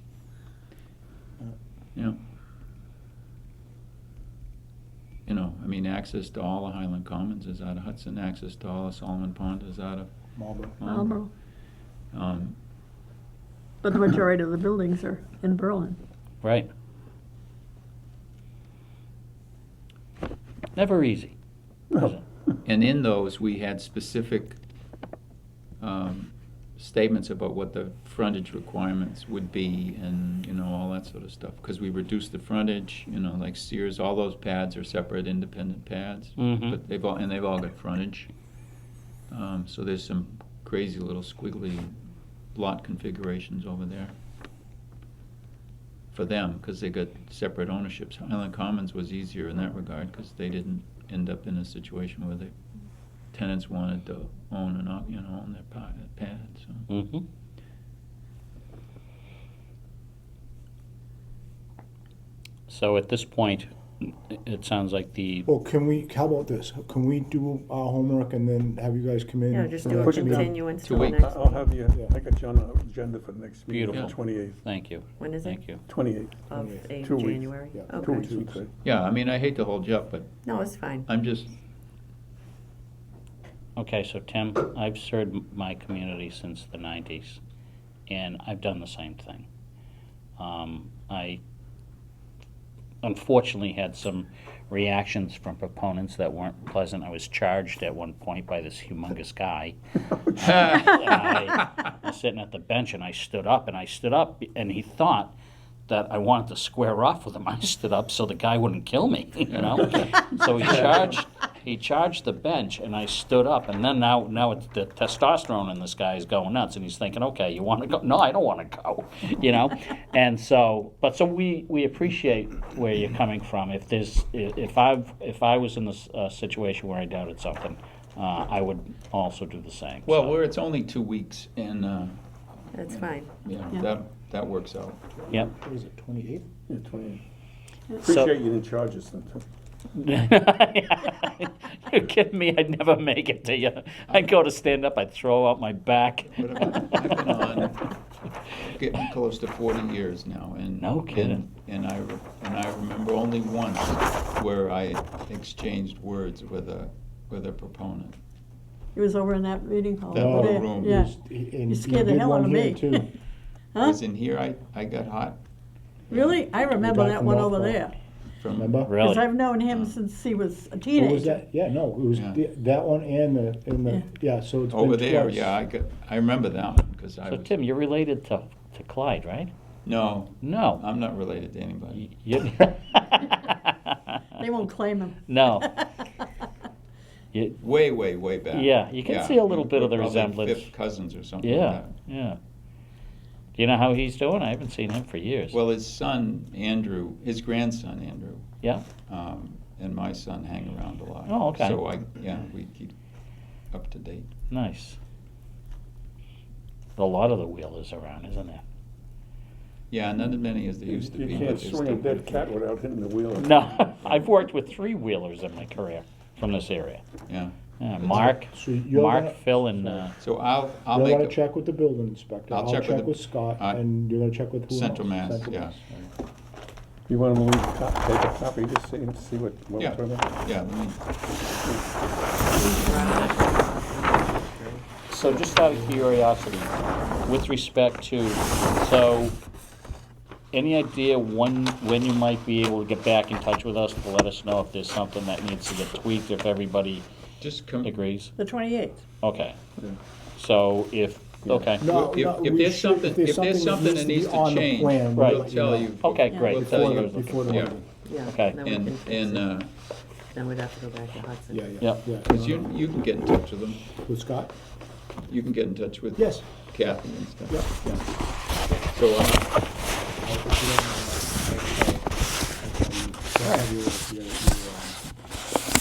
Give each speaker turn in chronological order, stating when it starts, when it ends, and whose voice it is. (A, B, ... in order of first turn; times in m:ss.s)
0:05.3-0:10.1 A
0:10.4-0:10.8 B
0:10.8-0:11.2 A
0:10.8-0:11.3 C
0:12.1-0:12.6 A
0:13.8-0:16.0 C
0:16.4-0:16.7 D
0:20.8-0:21.3 D
0:21.9-0:22.2 D
0:22.6-0:24.6 A
0:25.8-0:38.3 A
0:36.4-0:36.8 D
0:39.3-0:41.9 A
0:42.5-0:44.1 A
0:46.1-0:52.5 A
0:53.3-0:56.9 A
0:56.9-0:57.2 D
1:02.7-1:05.5 D
1:05.5-1:10.6 B
1:09.5-1:11.7 E
1:09.8-1:14.6 F
1:10.8-1:11.2 A
1:13.7-1:15.8 D
1:15.2-1:15.8 E
1:15.8-1:16.5 F
1:16.5-1:18.3 E
1:16.5-1:17.0 B
1:17.0-1:18.7 F
1:17.7-1:18.6 B
1:18.8-1:20.4 A
1:20.4-1:21.1 E
1:21.1-1:21.6 A
1:23.8-1:27.4 D
1:28.1-1:29.5 D
1:30.4-1:31.4 D
1:33.0-1:45.3 D
1:45.9-2:10.4 D
2:10.1-2:12.2 A
2:12.7-2:13.4 E
2:12.9-2:15.0 A
2:15.2-2:16.5 B
2:16.7-2:17.2 F
2:18.0-2:19.4 F
2:18.0-2:18.3 D
2:20.0-2:27.4 D
2:24.1-2:24.4 A
2:26.4-2:27.9 A
2:28.5-2:38.2 A
2:30.8-2:31.4 D
2:39.0-2:41.1 C
2:40.1-2:41.1 A
2:40.1-2:43.1 B
2:41.7-2:43.0 C
2:43.8-2:44.0 C
2:43.8-2:45.4 A
2:46.1-2:46.5 A
2:46.1-2:47.9 C
2:46.6-2:47.8 B
2:48.4-2:48.8 A
2:48.5-2:48.9 B
2:48.8-2:49.4 D
2:49.0-2:51.4 C
2:49.7-2:50.0 A
2:51.0-2:55.6 B
2:52.1-2:52.4 A
2:54.7-2:57.5 A
2:57.3-2:59.5 D
2:59.8-3:02.1 A
3:00.4-3:00.8 D
3:02.0-3:04.2 D
3:04.4-3:05.9 C
3:05.3-3:05.7 D
3:07.3-3:07.6 D
3:07.6-3:11.9 A
3:08.5-3:10.7 D
3:11.4-3:12.4 D
3:13.6-3:15.6 D
3:15.5-3:18.5 A
3:19.1-3:22.9 A
3:21.3-3:21.8 D
3:23.7-3:24.3 A
3:24.5-3:25.0 D
3:27.0-3:28.6 D
3:29.9-3:32.5 A
3:30.8-3:34.2 F
3:33.4-3:37.0 D
3:37.3-3:38.3 A
3:37.8-3:40.2 D
3:38.1-3:40.1 B
3:40.2-3:41.4 A
3:40.9-3:46.1 B
3:42.5-3:43.8 A
3:44.7-3:45.8 A
3:47.1-3:50.3 F
3:49.8-3:51.0 A
3:51.6-3:51.9 F
3:52.5-3:54.8 E
3:52.6-3:53.3 C
3:55.1-3:56.7 D
3:55.5-3:56.3 B
3:57.2-3:59.4 D
4:00.5-4:07.0 D
4:07.4-4:08.0 A
4:07.8-4:08.4 D
4:08.4-4:09.0 C
4:09.2-4:09.6 D
4:10.4-4:11.8 D
4:11.4-4:11.8 F
4:11.8-4:17.9 B
4:11.8-4:17.8 A
4:15.2-4:15.5 D
4:16.0-4:18.6 D
4:16.3-4:16.6 C
4:18.0-4:19.6 E
4:18.5-4:19.7 A
4:20.3-4:21.8 E
4:21.5-4:22.8 B
4:21.8-4:22.1 D
4:22.2-4:23.9 A
4:24.0-4:24.6 B
4:25.3-4:29.6 A
4:26.2-4:26.9 B
4:27.5-4:28.8 B
4:30.2-4:35.1 B
4:33.4-4:33.7 D